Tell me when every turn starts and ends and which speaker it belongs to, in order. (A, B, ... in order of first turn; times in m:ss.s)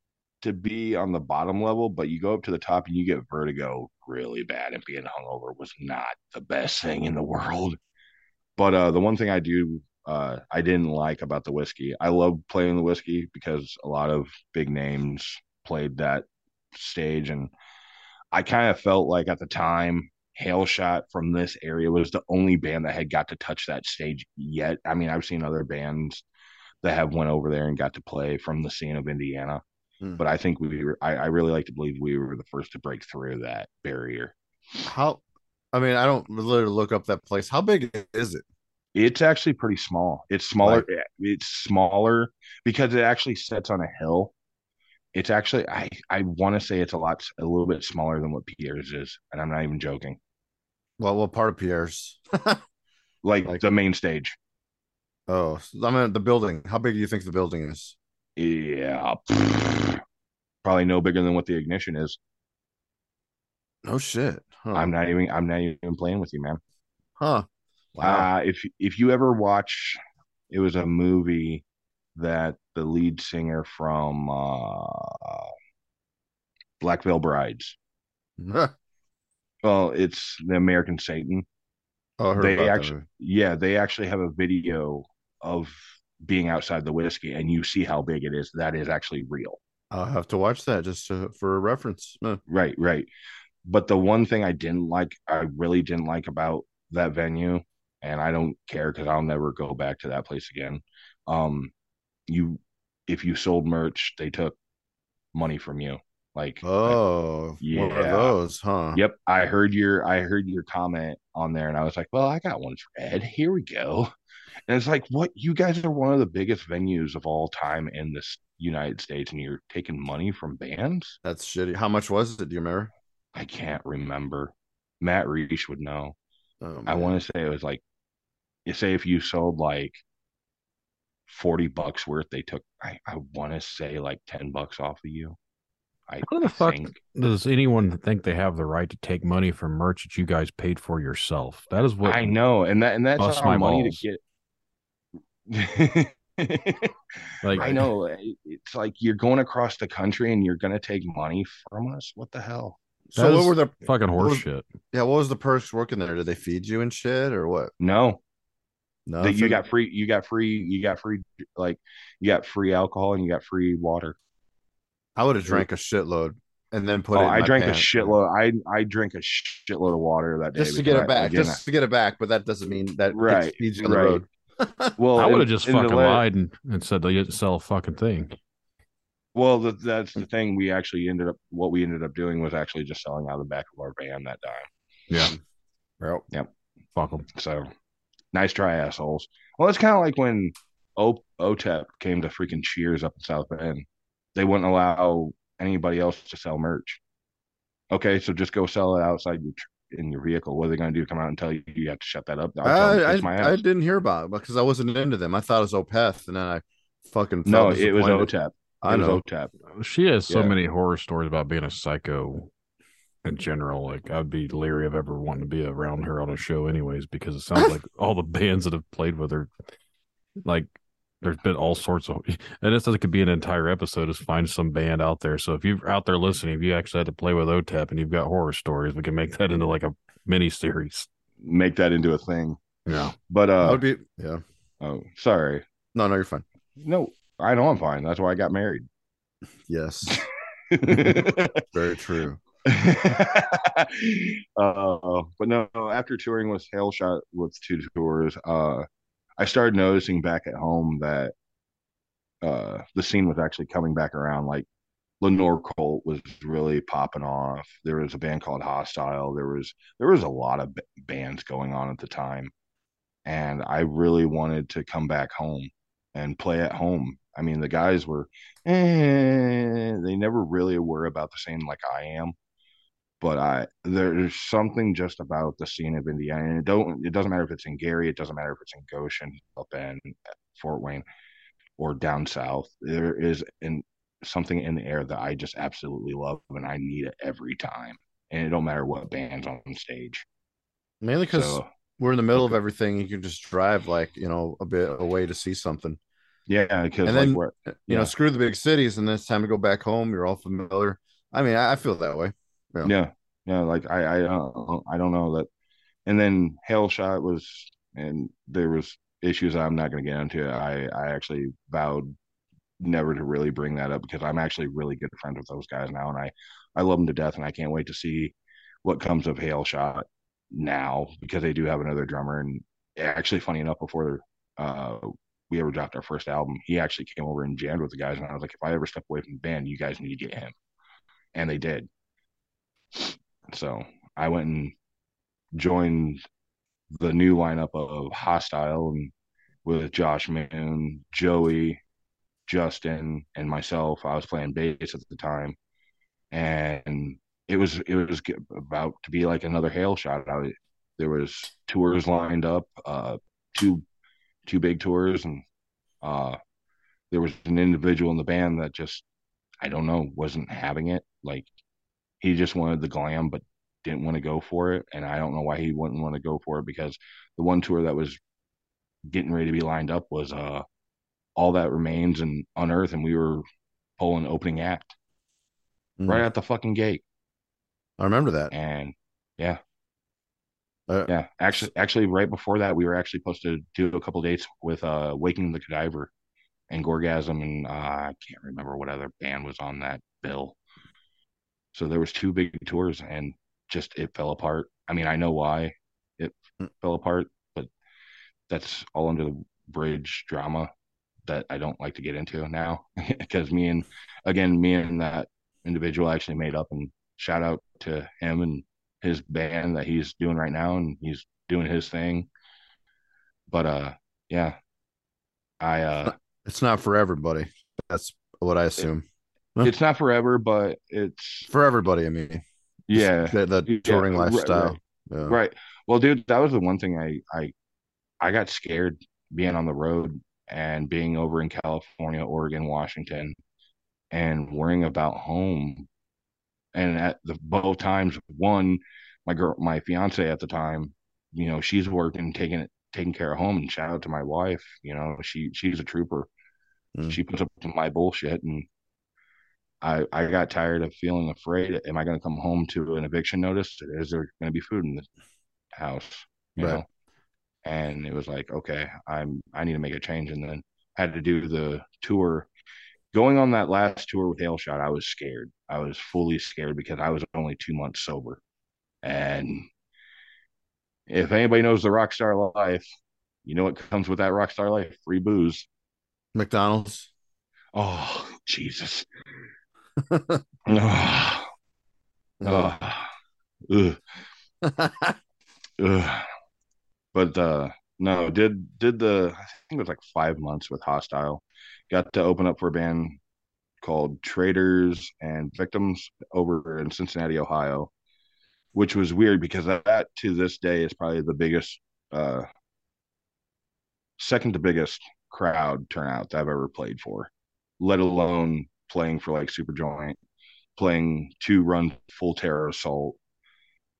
0:00.4-0:07.8 A
0:08.6-0:17.5 A
0:18.3-0:26.2 A
0:26.8-0:29.6 A
0:30.2-0:34.3 A
0:34.8-0:35.2 B
0:35.7-0:38.4 B
0:38.9-0:44.3 A
0:40.6-0:40.8 B
0:45.1-0:50.2 A
0:51.0-0:52.6 B
0:53.2-0:54.4 A
0:55.3-0:58.0 B
0:58.4-1:00.0 A
1:00.6-1:02.2 A
1:03.8-1:04.9 B
1:04.7-1:06.6 A
1:07.2-1:08.3 B
1:08.0-1:10.0 A
1:10.5-1:11.6 A
1:12.2-1:15.5 A
1:16.8-1:17.8 A
1:18.4-1:18.7 B
1:19.6-1:21.4 A
1:22.2-1:23.0 B
1:22.4-1:29.6 A
1:29.9-1:32.4 B
1:32.5-1:33.1 A
1:33.6-1:41.7 A
1:42.3-1:44.6 A
1:45.3-1:47.0 A
1:46.6-1:49.0 B
1:47.6-1:48.4 A
1:48.9-1:54.1 A
1:54.7-2:01.2 A
2:01.2-2:02.9 B
2:03.3-2:06.2 A
2:06.6-2:07.2 B
2:06.8-2:07.8 A
2:08.6-2:10.0 A
2:11.3-2:15.4 A
2:16.1-2:16.9 A
2:16.2-2:22.3 C
2:22.0-2:24.2 A
2:23.2-2:24.0 C
2:25.5-2:26.9 A
2:27.4-2:27.8 C
2:27.5-2:32.8 A
2:33.1-2:37.7 B
2:33.1-2:34.6 C
2:37.8-2:38.2 A
2:39.1-2:39.6 B
2:39.2-2:44.2 A
2:45.2-2:48.2 B
2:47.1-2:51.6 A
2:50.6-2:54.9 B
2:53.1-2:54.2 A
2:55.0-2:56.2 A
2:55.2-2:58.4 C
2:59.3-3:04.7 A
3:07.0-3:07.3 C
3:07.3-3:07.7 A
3:08.3-3:17.0 A
3:17.9-3:23.6 A
3:22.6-3:28.3 B
3:27.4-3:29.5 A
3:28.8-3:29.2 B
3:29.7-3:32.5 C
3:30.3-3:30.5 A
3:33.2-3:39.5 C
3:40.4-3:51.1 C
3:51.4-3:52.6 A
3:52.9-3:53.1 C
3:53.3-3:53.8 A
3:53.6-3:54.4 B
3:54.8-3:55.6 A
3:55.9-3:56.4 B
3:56.8-3:58.9 A
3:59.7-4:00.2 B
4:00.1-4:01.6 A
4:00.9-4:02.4 B
4:02.7-4:08.8 A
4:09.4-4:11.3 A
4:12.4-4:14.6 A
4:15.2-4:22.5 A
4:23.2-4:32.3 A
4:33.2-4:41.0 A
4:41.8-4:50.2 A
4:51.0-4:56.0 B
4:51.3-4:51.6 A
4:56.5-4:58.1 A
4:57.0-5:02.9 B
5:02.8-5:05.5 A
5:06.0-5:12.1 A
5:12.8-5:30.5 A
5:31.3-5:31.9 A
5:32.9-5:34.7 A
5:35.5-5:36.2 A
5:37.0-5:39.1 A
5:39.6-5:41.8 A
5:42.5-5:45.6 A
5:46.3-5:53.8 A
5:54.5-5:55.4 A
5:56.0-5:56.4 A
5:57.1-5:59.0 A
5:59.6-6:01.5 A
6:02.2-6:08.2 A
6:09.1-6:10.6 A
6:11.4-6:13.4 A
6:14.0-6:14.9 A
6:16.0-6:16.2 B
6:16.1-6:17.0 A
6:18.0-6:18.5 B
6:18.5-6:19.6 A
6:20.9-6:21.7 B
6:21.1-6:26.1 A
6:26.7-6:30.6 A
6:31.7-6:37.7 A
6:38.5-6:40.7 A
6:41.3-6:52.3 A
6:53.5-6:54.6 A
6:55.6-6:56.1 A
6:56.0-6:59.0 B
6:59.6-7:01.5 A
7:01.5-7:02.4 B
7:02.9-7:07.5 A
7:02.9-7:05.4 B
7:08.2-7:13.4 A
7:14.1-7:15.9 A
7:16.7-7:26.3 A
7:26.9-7:27.2 B
7:27.1-7:28.7 A
7:29.8-7:35.0 A
7:35.7-7:36.8 A
7:37.6-7:42.5 A
7:43.1-7:48.4 A
7:49.0-7:49.7 A
7:51.1-7:52.8 A
7:53.4-7:55.6 A
7:56.3-7:57.1 B
7:57.7-7:59.1 A
8:00.0-8:00.4 B
8:00.7-8:01.5 A
8:02.4-8:02.7 B
8:02.4-8:03.1 A
8:03.7-8:04.0 A
8:04.6-8:05.2 B
8:05.8-8:06.3 A
8:07.1-8:13.2 A
8:13.8-8:17.9 A
8:18.7-8:22.4 A
8:24.2-8:30.2 A
8:30.8-8:33.2 A